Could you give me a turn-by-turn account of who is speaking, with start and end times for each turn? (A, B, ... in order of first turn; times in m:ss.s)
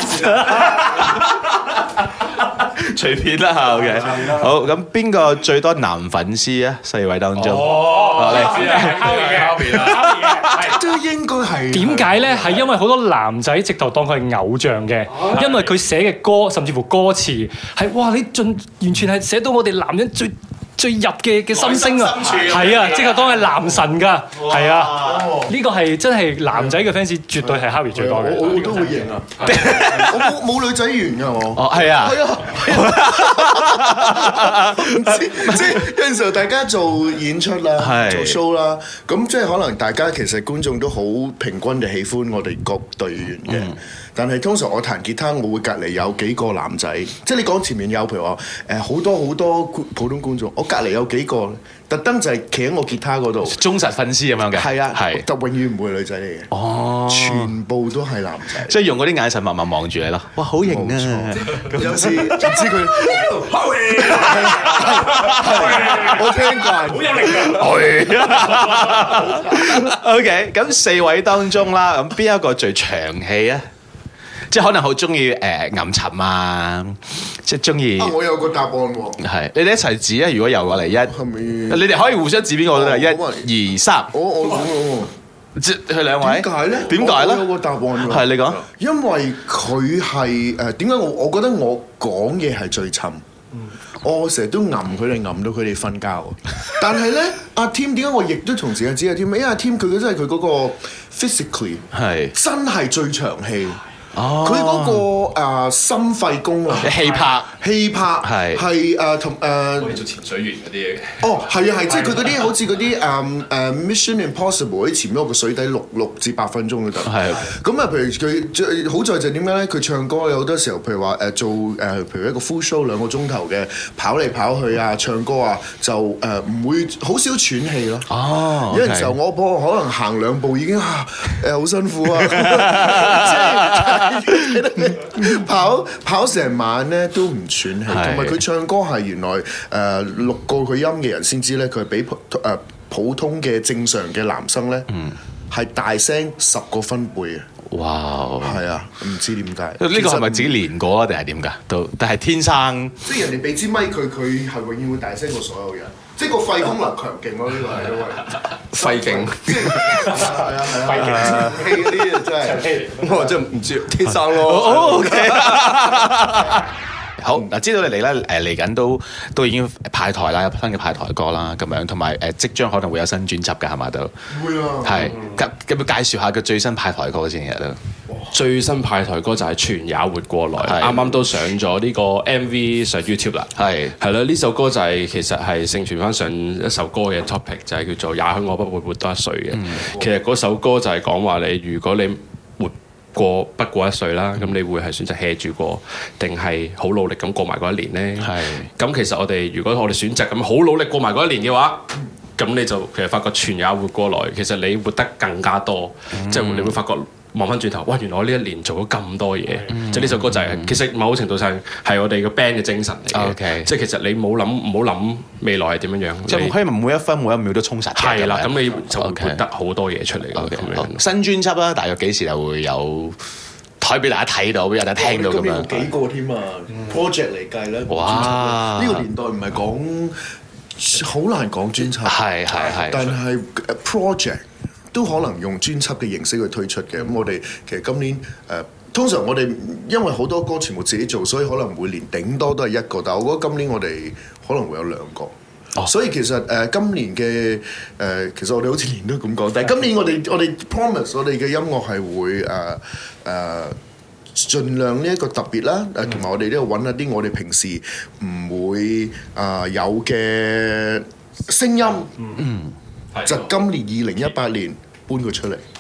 0:00.3-0:09.1 A
0:07.4-0:10.7 B
0:08.1-0:09.8 C
0:09.7-0:10.7 A
0:10.6-0:12.6 D
0:11.7-0:29.0 C
0:21.5-0:23.4 A
0:24.4-0:25.3 A
0:25.1-0:25.5 D
0:26.5-0:26.9 D
0:27.4-0:53.6 D
0:29.4-0:29.9 B
0:29.4-0:30.3 A
0:31.5-0:35.8 A
0:37.8-0:38.4 A
0:43.5-0:43.8 A
0:53.4-0:55.3 A
0:54.5-0:56.5 D
0:56.5-0:57.6 A
0:57.0-0:58.8 D
0:58.6-1:02.5 A
1:00.6-1:03.4 D
1:01.8-1:02.6 E
1:03.5-1:03.9 E
1:03.5-1:06.3 B
1:04.0-1:06.1 A
1:04.2-1:07.7 D
1:07.1-1:07.4 B
1:07.3-1:13.6 A
1:14.5-1:18.2 A
1:18.0-1:19.2 D
1:19.2-1:21.2 A
1:21.0-1:21.9 D
1:21.7-1:24.2 A
1:22.7-1:23.5 D
1:24.1-1:25.1 D
1:25.6-1:28.6 A
1:26.2-1:33.2 D
1:34.0-1:43.8 D
1:41.9-1:42.3 A
1:44.1-1:45.1 A
1:44.3-1:50.0 D
1:46.8-1:47.5 A
1:48.2-1:48.6 A
1:49.8-1:52.5 B
1:51.2-2:08.1 D
1:57.0-1:57.4 A
2:08.1-2:09.2 A
2:08.7-2:24.9 D
2:12.2-2:14.6 A
2:17.9-2:18.4 A
2:25.5-2:27.5 D
2:27.7-2:28.6 A
2:28.4-2:30.5 D
2:29.8-2:33.0 A
2:33.0-2:42.7 D
2:38.7-2:40.1 E
2:40.8-2:41.8 C
2:41.2-2:41.6 E
2:42.4-2:43.4 C
2:43.0-2:46.0 E
2:44.4-2:46.7 A
2:47.2-2:54.1 A
2:54.3-2:55.2 D
2:54.8-2:57.8 A
2:58.3-3:21.8 B
3:00.6-3:01.1 A
3:03.6-3:03.9 A
3:09.5-3:09.8 A
3:09.9-3:10.1 D
3:18.2-3:18.7 A
3:22.4-3:36.6 B
3:26.1-3:26.8 A
3:29.7-3:30.8 A
3:33.1-3:33.7 A
3:36.3-3:39.4 A
3:38.0-3:41.0 B
3:40.3-3:43.2 A
3:43.8-3:45.9 A
3:45.0-3:50.2 D
3:47.9-3:49.0 A
3:50.8-4:13.8 D
3:51.8-3:53.2 A
4:14.4-4:22.5 D
4:22.4-4:22.7 A
4:23.1-4:23.6 B
4:23.2-4:25.6 D